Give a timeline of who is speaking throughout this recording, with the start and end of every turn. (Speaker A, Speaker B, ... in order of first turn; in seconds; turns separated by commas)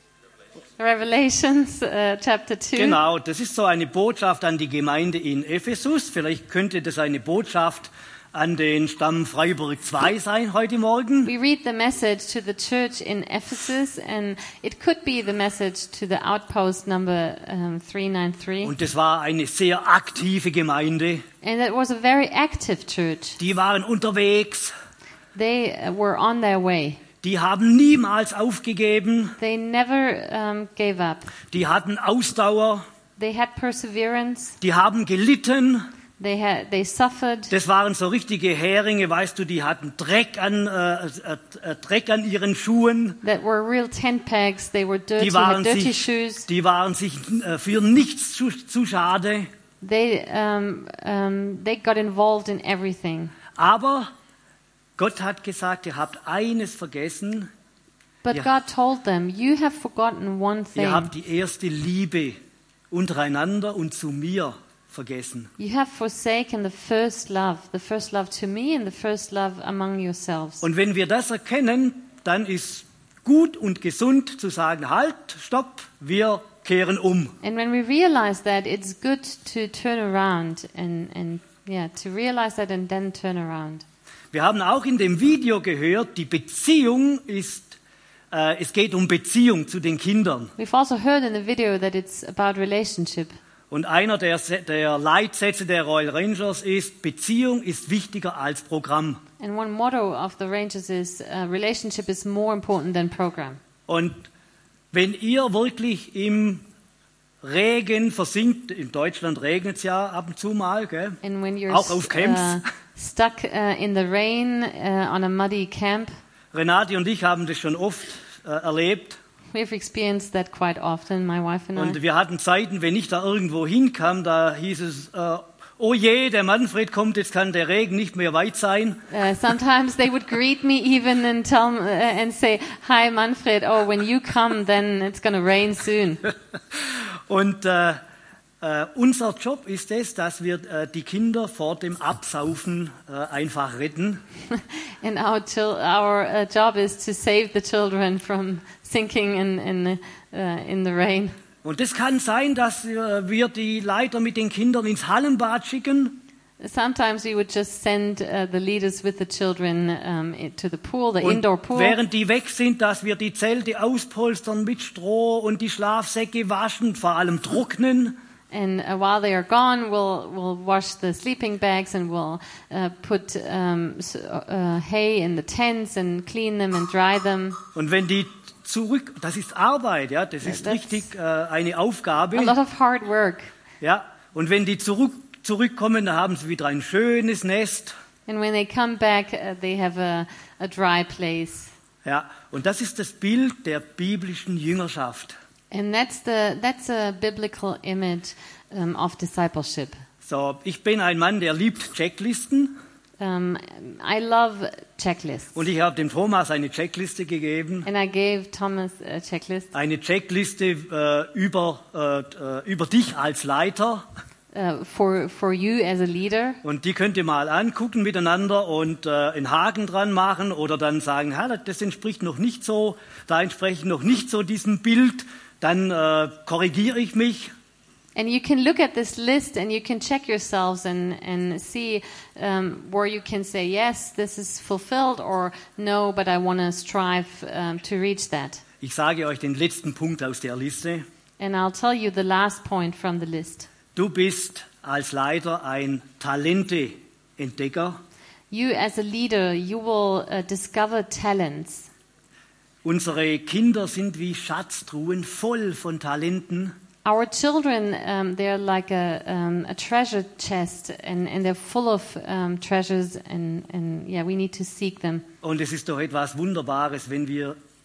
Speaker A: 0.8-3.0, Speaker B: 2.8-11.3, Speaker A: 11.2-18.7, Speaker B: 18.6-21.2, Speaker A: 21.4-23.4, Speaker B: 23.4-24.7, Speaker A: 25.4-27.0, Speaker B: 27.2-29.4, Speaker A: 29.4-31.3, Speaker B: 31.5-32.9, Speaker A: 33.2-34.6, Speaker B: 34.6-35.9, Speaker A: 36.2-37.5, Speaker B: 37.5-43.2, Speaker A: 43.2-46.5, Speaker B: 45.2-49.5, Speaker A: 49.8-53.4, Speaker B: 53.6-54.1, Speaker B: 55.0-57.5, Speaker A: 58.3-61.1, Speaker B: 60.8-62.4, Speaker B: 62.9-65.5, Speaker A: 65.6-70.7, Speaker B: 70.6-77.4, Speaker A: 77.4-83.8, Speaker B: 84.3-87.8, Speaker B: 88.3-90.5, Speaker A: 90.6-93.4, Speaker B: 93.7-99.2, Speaker A: 99.4-103.6, Speaker B: 103.9-104.3, Speaker B: 104.9-106.6, Speaker B: 107.4-112.6, Speaker A: 111.2-116.1, Speaker B: 116.5-119.2, Speaker A: 119.5-122.0, Speaker B: 121.8-129.0, Speaker A: 129.1-136.2, Speaker B: 136.7-138.0, Speaker B: 138.6-144.2, Speaker A: 144.5-151.4, Speaker B: 151.6-156.2, Speaker A: 156.6-162.0, Speaker B: 161.2-168.2, Speaker A: 168.5-177.6, Speaker B: 177.8-182.6, Speaker A: 180.5-181.1, Speaker A: 182.3-183.5, Speaker B: 183.8-187.9, Speaker A: 188.3-191.7, Speaker B: 192.1-195.4, Speaker A: 195.7-200.0, Speaker B: 200.2-202.8, Speaker A: 203.2-205.6, Speaker B: 205.6-207.9, Speaker A: 207.8-209.7, Speaker B: 209.7-214.1, Speaker A: 214.5-216.6, Speaker B: 216.6-227.5, Speaker A: 228.2-238.6, Speaker B: 238.8-241.1, Speaker A: 241.4-243.7, Speaker B: 243.9-248.0, Speaker A: 248.5-251.9, Speaker B: 252.8-256.8, Speaker A: 257.1-265.2, Speaker B: 265.4-267.6